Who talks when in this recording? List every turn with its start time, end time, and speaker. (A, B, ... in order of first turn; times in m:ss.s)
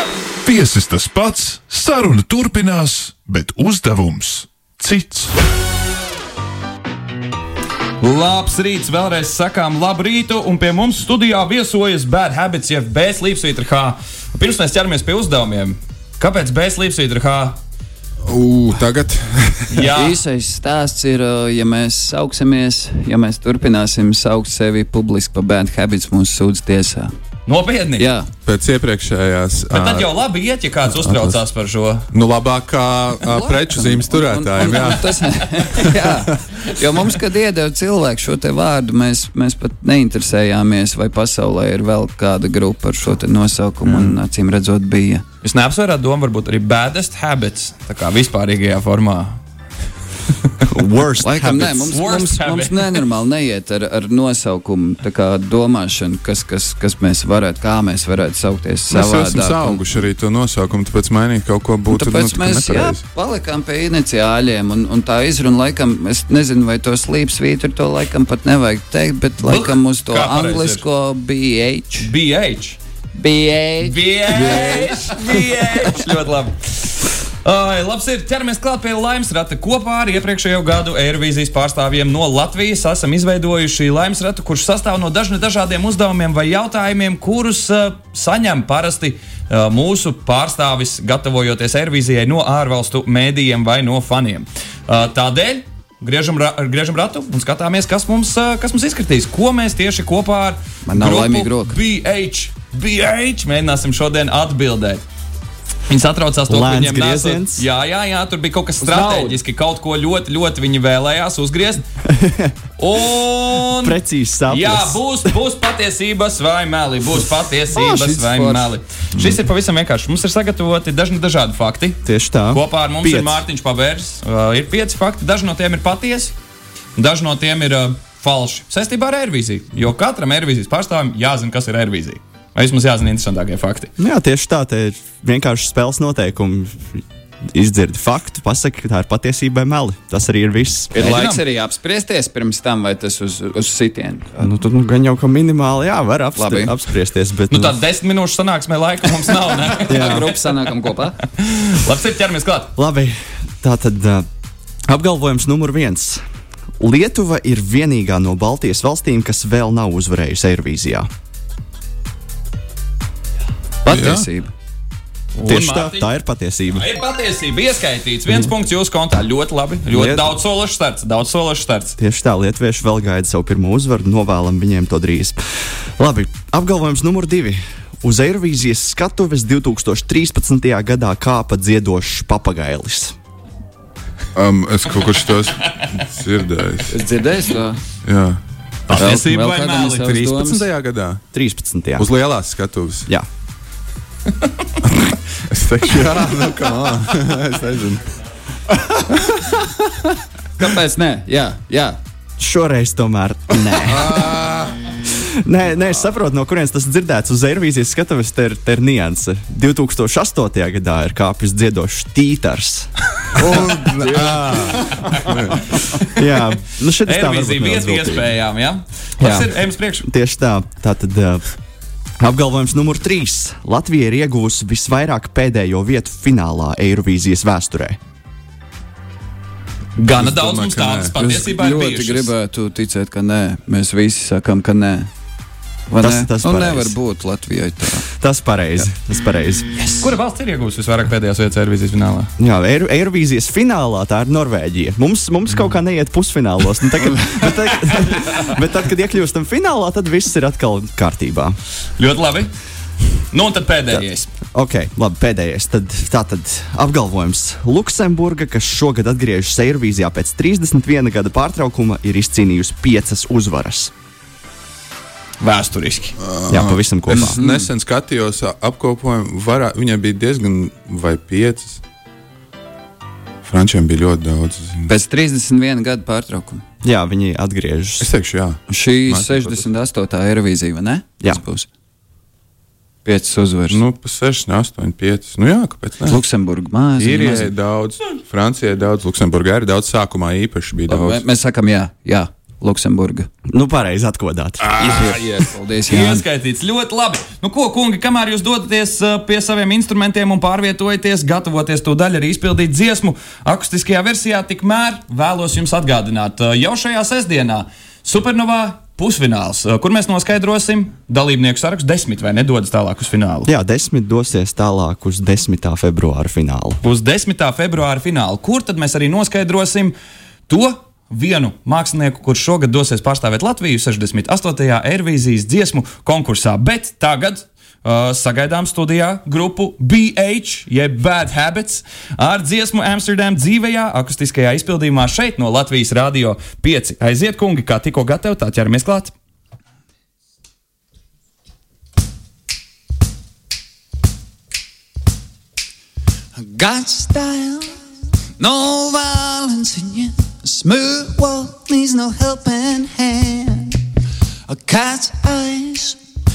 0:00.4-0:05.3 A
0:08.0-0:17.6 B
0:18.3-0:19.9 C
0:19.7-0:20.2 B
0:19.9-0:27.1 D
0:27.4-0:28.1 B
0:28.0-0:28.3 D
0:28.4-0:30.1 C
0:29.7-0:32.0 B
0:30.8-0:31.4 C
0:32.1-0:36.2 C
0:33.3-0:45.2 D
0:43.8-0:44.2 E
0:45.4-0:49.4 B
0:50.6-0:51.9 E
0:51.2-0:59.8 D
0:51.9-0:53.0 B
0:58.9-1:03.0 C
1:01.9-1:12.1 D
1:09.4-1:10.8 B
1:12.0-1:12.8 B
1:13.1-1:15.2 D
1:13.8-1:45.0 B
1:40.8-1:41.8 D
1:45.9-1:51.8 B
1:46.5-1:47.6 E
1:48.8-1:49.4 D
1:52.0-1:52.6 E
1:52.8-1:54.0 B
1:53.8-1:55.3 E
1:54.5-2:02.0 B
1:57.7-1:58.7 D
2:02.0-2:03.4 E
2:02.5-2:06.3 B
2:07.0-2:13.9 B
2:14.0-2:17.0 E
2:17.5-2:21.0 E
2:20.9-2:24.4 D
2:21.0-2:21.4 B
2:24.4-2:27.8 E
2:26.4-2:26.8 D
2:27.5-2:32.7 B
2:29.8-2:31.2 D
2:29.9-2:30.2 E
2:32.8-2:34.2 E
2:34.9-2:36.2 E
2:36.8-2:41.1 E
2:43.8-2:44.5 D
2:43.9-2:44.2 C
2:45.4-2:46.1 B
2:45.4-2:46.8 E
2:46.7-2:52.0 B
2:49.9-2:50.3 E
2:52.0-2:55.4 E
2:56.0-3:03.1 E
3:04.3-3:06.9 C
3:05.3-3:05.7 B
3:06.9-3:07.8 D
3:08.0-3:09.1 C
3:08.9-3:10.4 B
3:08.9-3:10.6 D
3:10.2-3:11.2 C
3:11.3-3:12.1 E
3:12.0-3:13.1 C
3:14.8-3:18.0 C
3:20.6-3:22.0 D
3:22.4-3:24.3 E
3:23.8-3:24.9 C
3:25.0-3:32.9 E
3:33.3-3:35.8 C
3:33.5-3:34.8 D
3:36.1-3:38.3 E
3:37.0-3:40.1 B
3:39.2-3:41.4 E
3:42.2-3:48.0 E
3:50.0-3:52.3 B
3:50.1-3:51.2 C
3:51.2-3:55.1 D
3:55.9-3:58.0 D
3:55.9-3:56.9 E
3:58.2-3:59.6 E
3:59.8-4:02.3 B
4:02.4-4:11.6 E
4:12.0-4:12.5 B
4:13.3-4:14.3 B
4:14.5-4:23.9 E
4:25.4-4:26.1 B
4:26.2-4:31.8 C
4:26.5-4:27.4 E
4:27.1-4:27.7 D
4:33.4-4:34.9 C
4:34.9-4:36.6 D
4:36.8-4:38.1 E
4:38.0-4:39.7 C
4:38.7-4:41.7 D
4:43.0-4:43.8 D
4:43.7-4:46.2 C
4:46.0-4:47.5 D
4:47.0-4:51.2 C
4:50.9-4:53.3 D
4:53.5-4:54.9 E
4:54.8-4:55.1 C
4:54.8-4:56.2 D
4:55.9-5:13.5 B
5:13.4-5:16.8 E
5:16.8-5:19.9 B
5:20.5-5:39.1 B
5:46.3-5:47.7 D
5:48.4-5:53.8 D
5:54.5-5:56.0 D